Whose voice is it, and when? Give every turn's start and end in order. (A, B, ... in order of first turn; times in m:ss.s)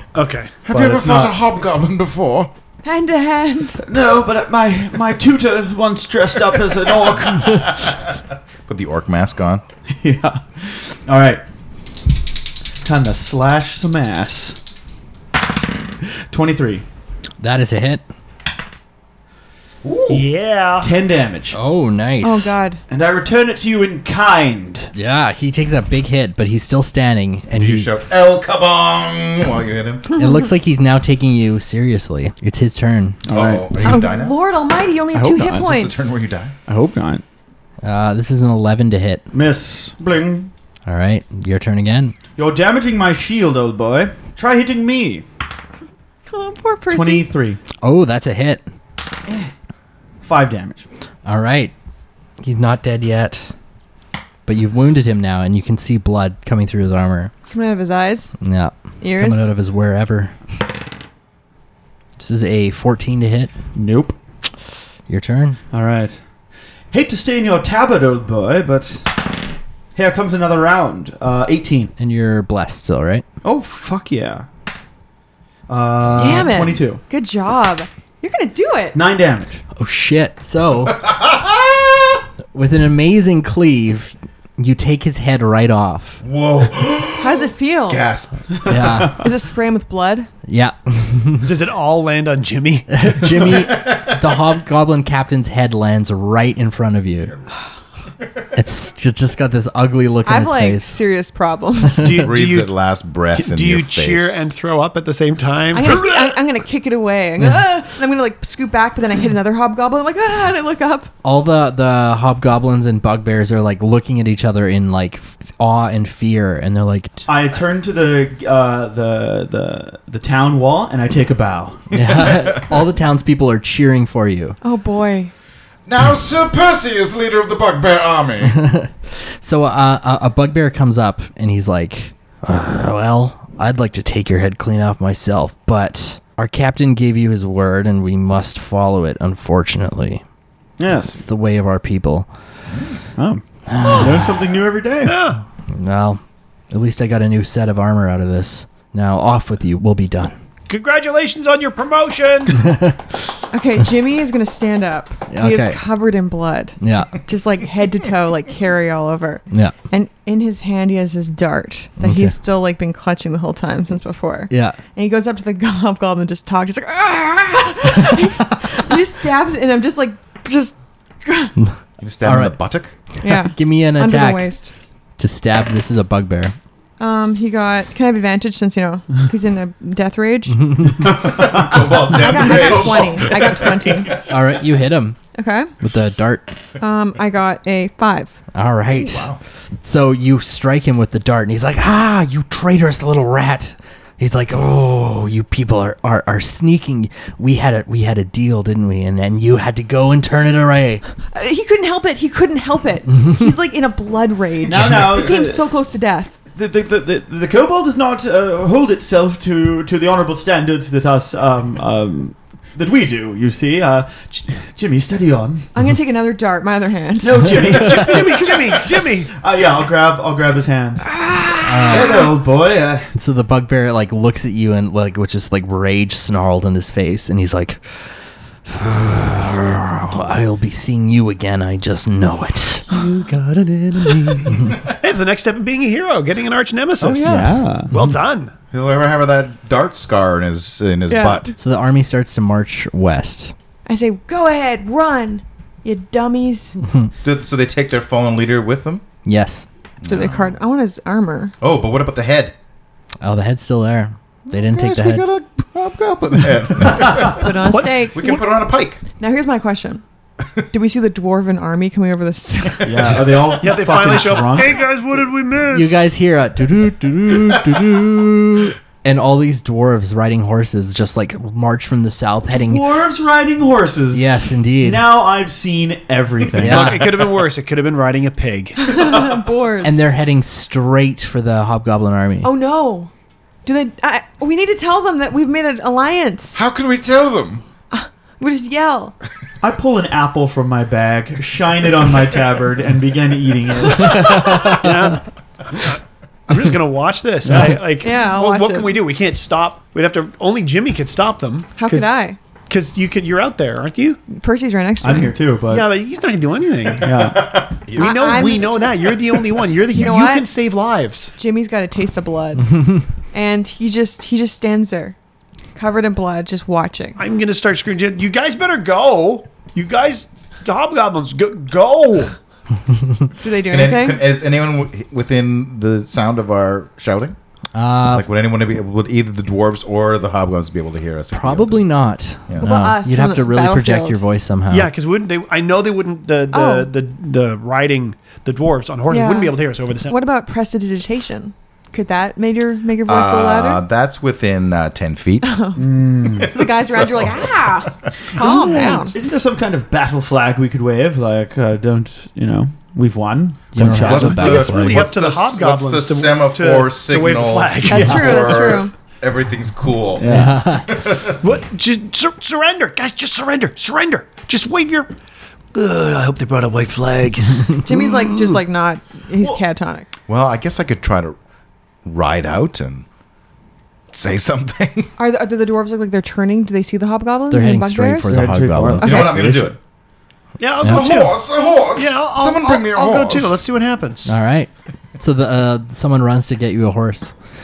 0:00.1-0:00.5 A
0:00.7-0:02.5 B
0:00.7-0:01.4 C
0:02.8-0:03.8 D
0:03.8-0:07.9 C
0:08.7-0:09.6 B
0:10.0-0:11.4 C
0:12.8-0:14.6 C
0:16.3-0:16.8 C
0:17.4-0:18.0 E
0:19.8-0:20.3 B
0:20.1-0:20.9 A
0:20.8-0:21.6 C
0:21.5-0:22.6 E
0:22.2-0:22.8 D
0:22.9-0:24.9 C
0:24.9-0:27.9 E
0:27.5-0:30.1 B
0:30.1-0:33.2 E
0:33.3-0:33.8 C
0:33.3-0:34.4 B
0:33.8-0:36.1 D
0:35.1-0:35.6 C
0:35.4-0:36.5 B
0:36.7-0:37.2 C
0:37.8-0:39.2 E
0:39.3-0:40.5 C
0:40.9-0:42.2 E
0:42.4-0:45.2 C
0:46.3-0:47.3 D
0:46.9-0:47.6 C
0:47.8-0:48.6 E
0:50.2-0:50.9 C
0:51.2-0:51.7 E
0:52.4-0:53.5 E
0:54.5-0:57.3 E
0:57.5-0:58.3 D
0:58.4-1:00.3 E
0:59.0-0:59.5 D
1:02.2-1:03.5 E
1:03.8-1:04.2 C
1:05.1-1:05.6 E
1:05.7-1:06.2 C
1:06.9-1:09.2 C
1:10.0-1:11.9 C
1:12.0-1:13.2 E
1:13.4-1:14.5 C
1:15.7-1:17.0 C
1:16.2-1:19.0 D
1:18.9-1:19.6 C
1:19.8-1:21.0 E
1:20.9-1:22.2 B
1:22.5-1:26.2 E
1:26.2-1:28.8 B
1:27.2-1:28.0 D
1:28.7-1:29.2 E
1:29.1-1:30.3 D
1:30.5-1:31.5 E
1:31.4-1:32.9 A
1:32.9-1:37.4 E
1:38.5-1:41.0 E
1:40.2-1:42.2 D
1:42.0-1:42.7 A
1:42.2-1:44.5 B
1:43.3-1:46.0 A
1:45.7-1:51.1 D
1:51.2-1:57.2 E
1:57.3-2:01.9 C
2:01.9-2:04.6 E
2:02.0-2:02.6 B
2:04.6-2:05.3 D
2:05.9-2:08.6 B
2:08.4-2:20.2 E
2:20.8-2:21.2 C
2:21.1-2:22.3 E
2:22.7-2:23.0 B
2:23.2-2:25.2 C
2:23.7-2:24.3 E
2:25.0-2:25.4 A
2:25.7-2:30.3 E
2:30.7-2:32.7 A
2:32.6-2:33.0 E
2:33.5-2:51.6 D
2:35.3-2:35.8 E
2:36.8-2:37.2 E
2:42.0-2:42.4 E
2:44.5-2:44.8 E
2:52.0-2:52.9 B
2:52.2-2:52.6 E
2:53.2-2:54.7 D
2:53.2-2:54.5 E
2:55.2-2:56.6 E
2:57.0-3:00.9 D
3:00.6-3:01.1 E
3:01.2-3:01.7 C
3:01.2-3:04.3 B
3:02.1-3:04.2 D
3:04.3-3:05.2 E
3:05.3-3:05.7 D
3:05.8-3:06.6 E
3:06.8-3:08.4 D
3:08.5-3:09.3 E
3:08.9-3:09.4 B
3:09.8-3:21.0 E
3:21.3-3:26.4 D
3:24.7-3:25.7 C
3:26.5-3:35.7 C
3:35.7-3:37.5 D
3:37.2-3:41.1 C
3:37.5-3:39.3 A
3:41.1-3:42.3 D
3:41.6-3:42.3 E
3:41.9-3:43.1 C
3:43.2-3:47.9 E
3:48.6-3:52.9 E
3:52.9-3:58.5 A
3:57.0-3:57.9 C
3:58.7-4:01.5 B
4:01.1-4:01.6 D
4:01.6-4:03.5 E
4:03.9-4:06.8 D
4:07.2-4:09.1 B
4:09.2-4:09.6 E
4:10.0-4:10.6 B
4:10.1-4:11.5 D
4:11.6-4:12.6 B
4:13.2-4:15.2 E
4:14.5-4:19.0 B
4:17.2-4:18.5 D
4:17.7-4:18.1 A
4:19.2-4:20.0 D
4:20.7-4:23.1 D
4:22.8-4:24.8 C
4:23.6-4:26.1 A
4:25.7-4:32.9 E
4:32.5-4:37.0 C
4:34.1-4:35.1 E
4:36.6-4:37.2 E
4:36.6-4:39.0 A
4:38.8-4:40.1 D
4:39.8-4:42.5 E
4:42.4-4:43.1 D
4:43.6-4:46.6 D
4:46.6-4:47.6 B
4:47.9-4:49.2 D
4:49.6-4:54.6 C
4:54.0-4:54.9 E
4:54.6-5:02.1 A
4:57.4-4:57.8 C
4:58.0-4:59.0 D
5:01.8-5:02.4 D
5:02.7-5:04.2 A
5:04.3-5:05.4 D
5:05.0-5:05.9 C
5:05.7-5:07.4 A
5:07.0-5:07.6 C
5:07.2-5:09.4 B
5:07.9-5:11.3 A
5:08.0-5:09.1 D
5:09.9-5:10.5 D
5:11.4-5:12.8 D
5:13.3-5:15.2 D
5:15.8-5:17.2 D
5:17.2-5:22.4 A
5:23.4-5:24.2 D
5:23.7-5:27.4 B
5:27.7-5:28.3 E
5:28.1-5:31.8 B
5:31.3-5:34.9 E
5:32.6-5:34.2 D
5:34.7-5:40.2 A
5:36.5-5:36.9 D
5:39.1-5:43.8 D
5:43.1-5:45.6 B
5:45.4-5:45.8 D
5:45.8-5:46.5 C
5:46.3-5:47.5 B
5:46.4-5:49.2 D
5:48.4-5:54.4 C
5:53.7-5:55.1 E
5:53.8-6:00.3 B
5:53.9-5:58.8 A
5:57.9-5:58.9 D
5:57.9-5:58.4 C
6:00.2-6:00.6 C
6:00.3-6:01.0 E
6:00.9-6:01.4 B
6:01.4-6:05.1 A
6:05.7-6:08.6 A
6:07.8-6:10.1 D
6:10.3-6:11.4 B
6:12.0-6:13.0 B
6:14.1-6:15.1 B
6:15.2-6:18.4 D
6:17.5-6:19.4 E
6:18.3-6:19.8 C
6:19.0-6:19.3 D
6:19.0-6:19.8 B
6:20.6-6:24.3 A
6:20.8-6:23.6 B
6:24.3-6:27.4 E